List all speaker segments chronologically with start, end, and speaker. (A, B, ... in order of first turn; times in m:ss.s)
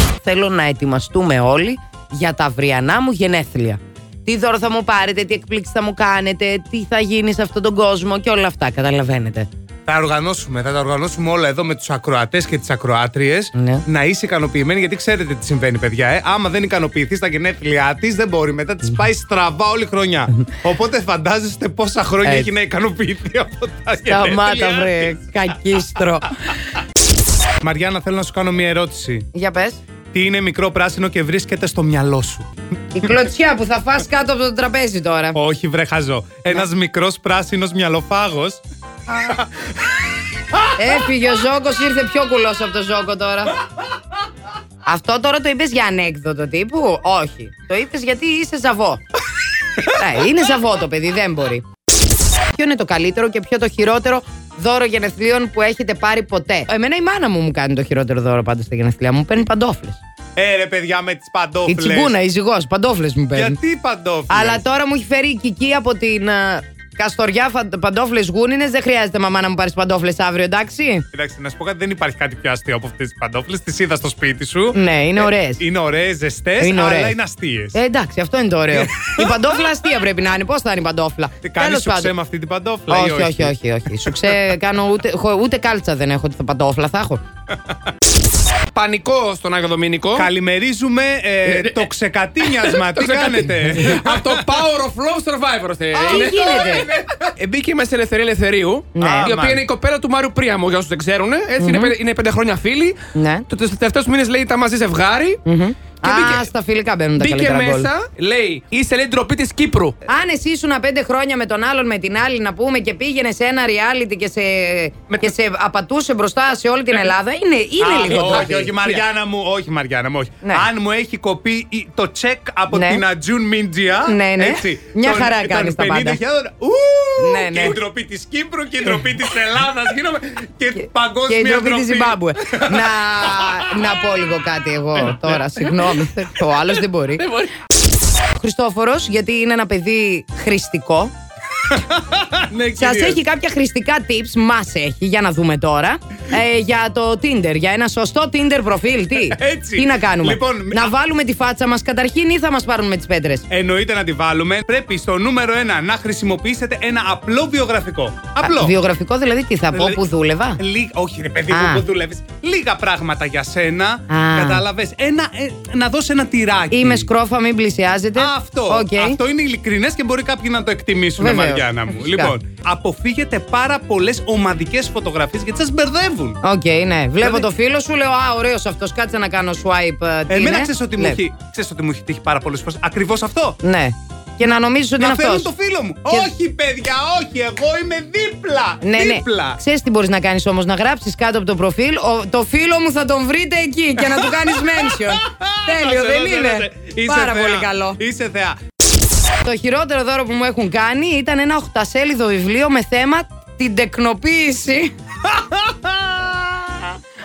0:00.2-0:09.5 A
0:09.9-0:25.2 B
0:13.6-0:13.8 A
0:22.2-0:22.5 A
0:24.1-0:26.3 A
0:27.6-0:29.3 B
0:29.3-0:29.8 A
0:30.1-0:32.5 B
0:33.0-0:35.4 A
0:35.3-0:39.5 B
0:40.8-0:43.6 A
0:44.9-0:49.0 A
0:49.9-0:51.6 A
0:52.5-1:00.0 A
1:00.4-1:02.2 B
1:01.7-1:03.6 A
1:03.3-1:04.6 B
1:04.3-1:11.0 A
1:11.1-1:17.8 B
1:14.7-1:15.6 A
1:16.6-1:17.2 A
1:17.7-1:22.1 A
1:18.7-1:19.8 B
1:21.4-1:23.5 B
1:22.9-1:27.2 A
1:28.7-1:30.3 C
1:30.2-1:34.6 B
1:31.5-1:31.9 C
1:32.5-1:43.0 C
1:35.9-1:36.9 A
1:36.1-1:37.2 B
1:39.0-1:39.3 A
1:39.0-1:39.6 B
1:41.6-1:42.0 A
1:43.1-1:43.5 A
1:43.5-1:45.4 C
1:45.4-1:47.9 A
1:46.0-1:46.5 C
1:47.2-1:50.0 C
1:50.1-1:58.7 A
1:57.8-2:13.8 B
1:58.1-1:59.0 C
2:02.7-2:03.0 A
2:04.1-2:06.2 A
2:07.2-2:07.8 A
2:11.3-2:17.2 A
2:15.0-2:15.8 B
2:17.2-2:17.5 C
2:18.4-2:21.1 A
2:21.7-2:23.2 B
2:22.8-2:33.4 A
2:29.3-2:30.9 B
2:33.5-2:38.7 B
2:38.4-2:40.6 A
2:39.7-2:40.0 B
2:40.6-2:47.1 B
2:41.5-2:41.8 A
2:44.1-2:44.6 A
2:46.7-2:49.2 A
2:48.2-2:56.4 B
2:51.2-2:52.3 A
2:56.4-3:01.2 A
2:57.2-2:57.5 B
3:00.3-3:03.6 B
3:03.6-3:05.5 A
3:05.0-3:09.6 B
3:08.8-3:18.0 A
3:14.0-3:18.6 B
3:19.4-3:24.9 A
3:25.3-3:26.9 B